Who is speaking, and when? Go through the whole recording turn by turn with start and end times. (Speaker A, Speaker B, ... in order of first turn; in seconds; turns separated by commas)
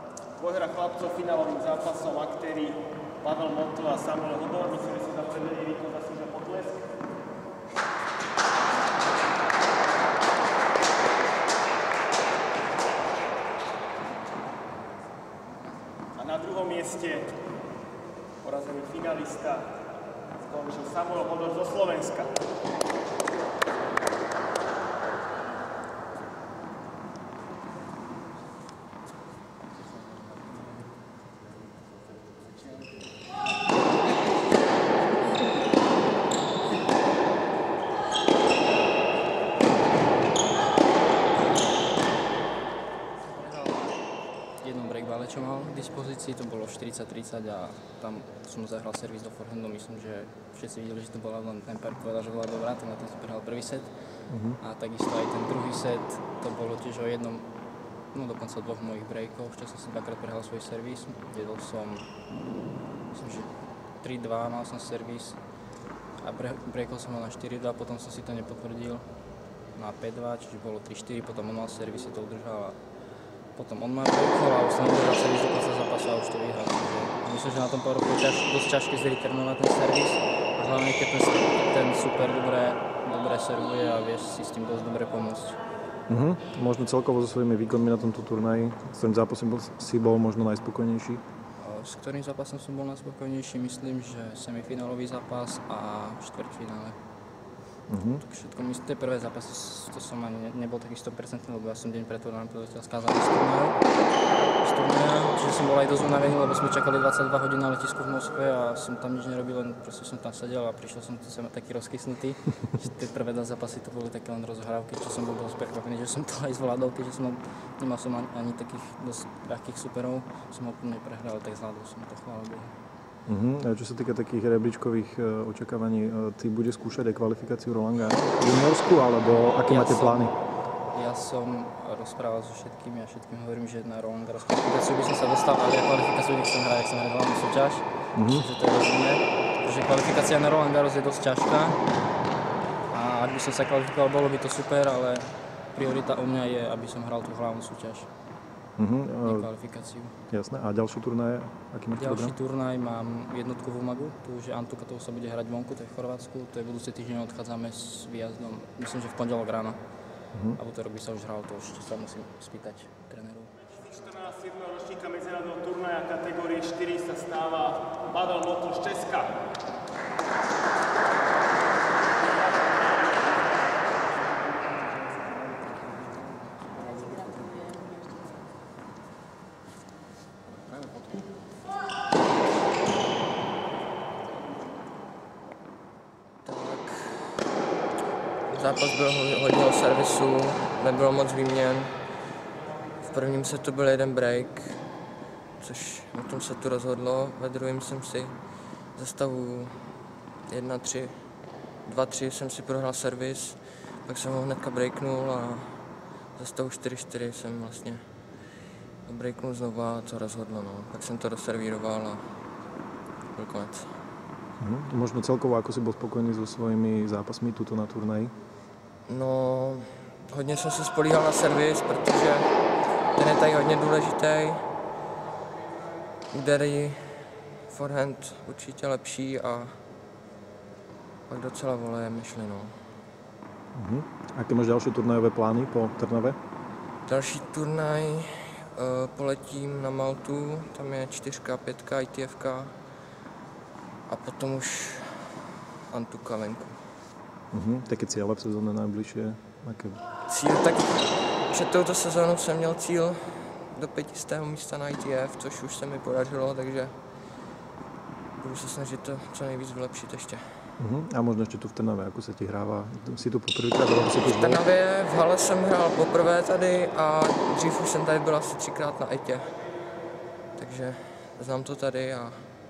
Speaker A: 0.4-6.9, Speaker A: 16.1-17.3, Speaker A: 18.4-19.7, Speaker A: 20.4-22.3, Speaker B: 43.2-44.0, Speaker B: 44.6-53.9, Speaker C: 54.3-54.6, Speaker B: 54.6-57.5, Speaker B: 58.1-62.1, Speaker B: 63.1-65.4, Speaker B: 66.2-69.0, Speaker B: 69.7-72.8, Speaker B: 73.5-85.6, Speaker C: 86.1-91.2, Speaker B: 91.6-97.0, Speaker C: 97.9-98.2, Speaker B: 98.1-103.8, Speaker B: 104.6-122.7, Speaker C: 123.2-130.3, Speaker B: 129.7-130.3, Speaker B: 130.9-141.8, Speaker C: 138.1-138.4, Speaker B: 142.9-148.1, Speaker C: 148.8-149.5, Speaker B: 149.2-150.2, Speaker C: 150.3-152.4, Speaker B: 151.9-159.8, Speaker C: 160.3-160.6, Speaker B: 160.6-163.5, Speaker A: 163.7-169.3, Speaker D: 186.4-187.4, Speaker D: 188.5-191.9, Speaker D: 193.1-194.8, Speaker D: 195.6-198.4, Speaker D: 198.9-199.9, Speaker D: 200.5-201.1, Speaker D: 201.8-205.7, Speaker D: 206.3-208.0, Speaker D: 209.1-212.2, Speaker D: 213.3-213.9, Speaker C: 214.6-218.3, Speaker D: 219.1-222.5, Speaker D: 223.1-224.6, Speaker D: 226.3-229.8, Speaker D: 231.3-232.7, Speaker C: 233.7-236.4, Speaker D: 237.1-242.7, Speaker D: 244.1-246.8, Speaker C: 247.5-250.0, Speaker D: 250.3-256.9, Speaker D: 258.4-260.4, Speaker C: 260.8-264.6, Speaker D: 264.2-269.5, Speaker D: 270.6-272.5